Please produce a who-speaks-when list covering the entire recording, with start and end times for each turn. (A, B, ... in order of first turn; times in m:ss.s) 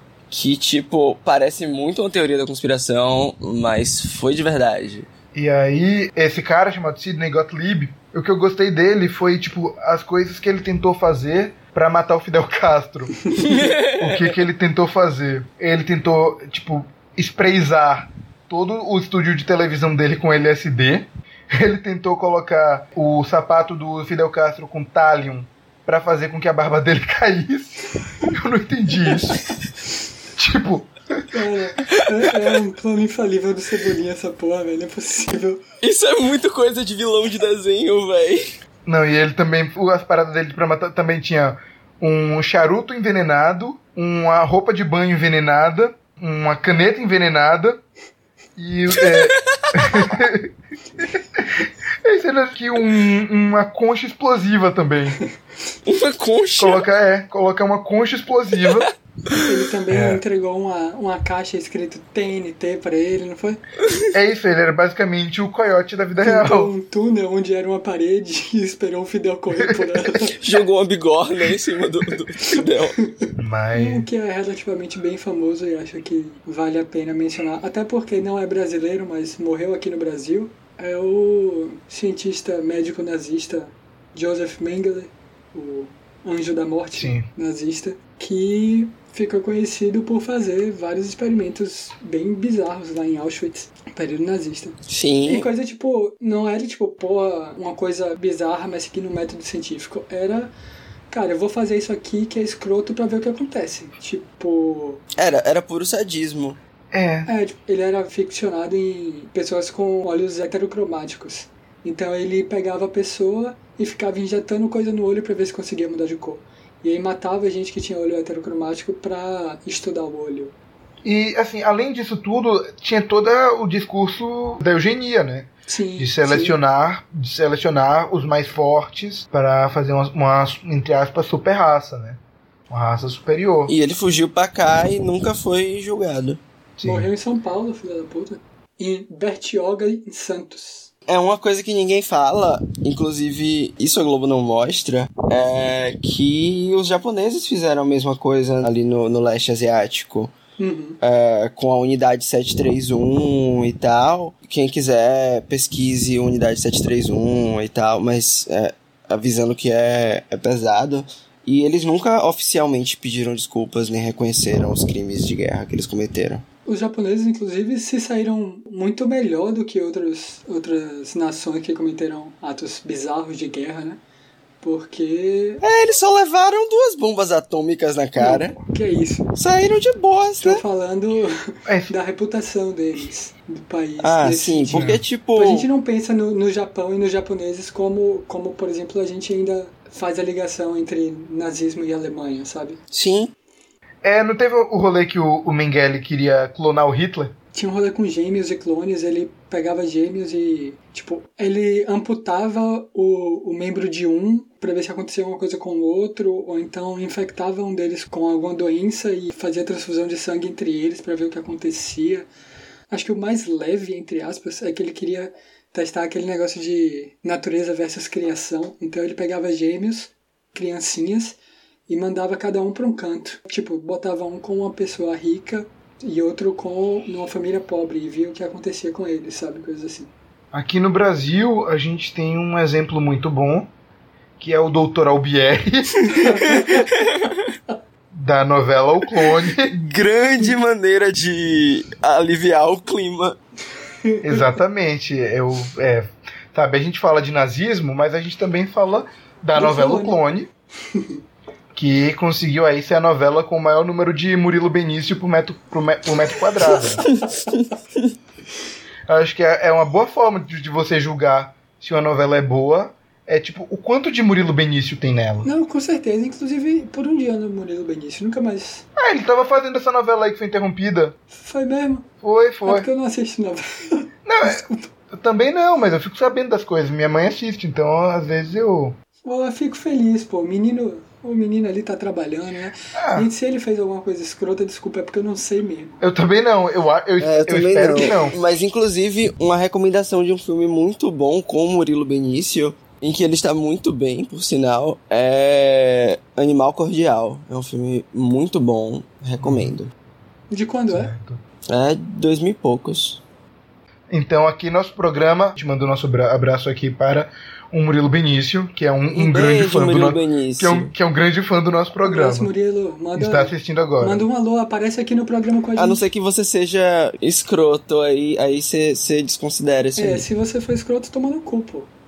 0:00.3-0:05.1 A
0:05.3-0:13.3 B
0:13.3-0:14.3 A
0:13.9-0:29.4 B
0:30.4-0:31.2 B
0:31.3-0:35.6 C
0:35.8-0:38.5 A
0:38.8-0:47.8 B
0:48.6-0:55.2 B
0:49.0-0:50.1 A
0:55.8-0:56.9 A
0:56.6-0:58.9 B
0:58.6-0:58.9 A
0:59.4-1:03.6 C
0:59.9-1:00.2 B
1:04.1-1:06.7 B
1:06.2-1:10.4 C
1:09.6-1:09.9 B
1:10.3-1:13.0 A
1:12.5-1:40.5 C
1:13.4-1:14.1 B
1:26.9-1:27.3 B
1:34.9-1:35.5 A
1:41.1-1:45.0 C
1:45.2-1:46.6 A
1:46.9-1:47.3 B
1:47.2-2:00.5 C
2:01.0-2:13.7 B
2:05.7-2:06.6 C
2:13.7-2:16.4 A
2:16.8-2:17.1 B
2:16.8-2:20.9 C
2:21.1-2:30.3 A
2:30.6-2:31.0 C
2:31.0-2:46.4 A
2:46.6-2:54.0 C
2:54.6-2:55.6 C
2:55.6-2:58.6 A
2:58.2-2:59.3 C
2:59.4-3:00.6 A
3:00.4-3:12.8 C
3:01.7-3:01.9 B
3:04.0-3:05.7 A
3:04.7-3:05.0 B
3:12.9-3:13.3 A
3:14.0-3:17.3 B
3:17.5-3:32.3 C
3:32.9-3:41.4 C
3:41.9-3:50.1 C
3:50.5-3:53.7 B
3:54.4-3:56.0 B
3:56.1-3:56.9 C
3:56.1-3:57.3 A
3:58.1-3:59.7 B
3:59.6-4:03.4 A
4:04.0-4:04.4 C
4:04.2-4:10.5 B
4:09.5-4:10.2 C
4:11.7-4:17.0 B
4:19.1-4:25.5 B
4:25.4-4:28.9 C
4:29.0-4:31.2 B
4:31.3-4:32.1 C
4:32.2-4:32.9 B
4:32.6-4:34.9 C
4:34.2-4:39.0 B
4:39.2-4:46.0 C
4:42.9-4:43.3 B
4:46.0-4:48.3 B
4:47.2-4:59.9 A
4:59.4-4:59.7 B
5:00.5-5:01.1 C
5:00.9-5:01.4 B
5:01.7-5:03.2 A
5:04.1-5:12.5 B
5:09.1-5:10.9 A
5:12.0-5:16.0 C
5:13.1-5:14.2 B
5:15.8-5:20.2 A
5:20.0-5:21.9 C